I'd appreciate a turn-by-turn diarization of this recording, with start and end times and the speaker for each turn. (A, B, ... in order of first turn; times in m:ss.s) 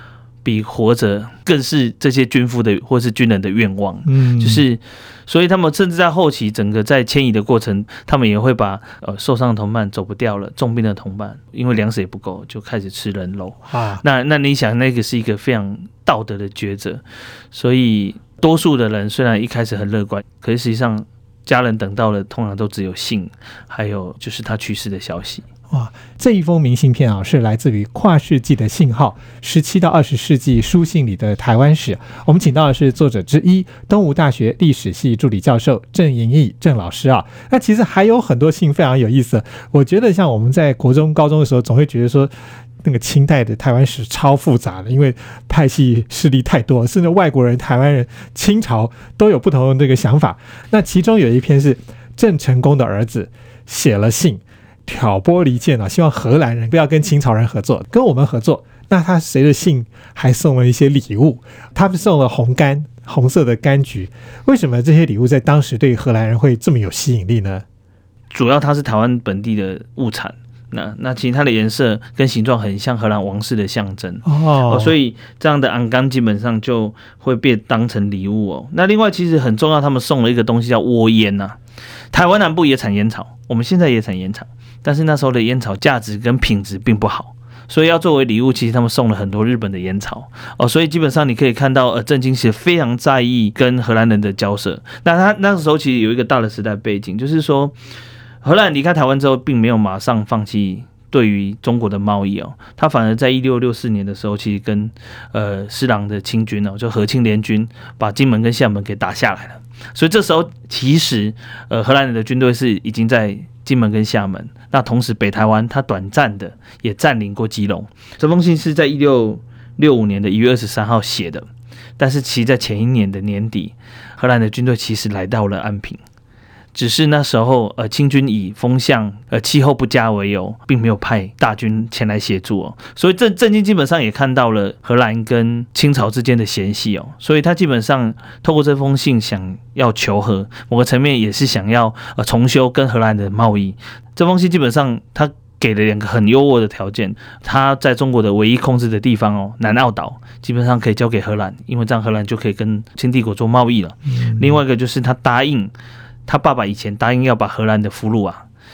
0:00.4-0:25.4 A
0:04.0-0:04.6 B
0:13.7-0:14.0 B
0:25.7-0:42.3 B
0:42.8-1:07.6 B
1:08.3-1:21.6 A
1:14.2-1:15.0 B
1:22.1-1:37.7 A
1:38.4-2:01.4 A
2:02.0-2:06.0 A
2:06.7-2:35.7 A
2:34.2-2:34.6 B
2:36.2-2:38.4 A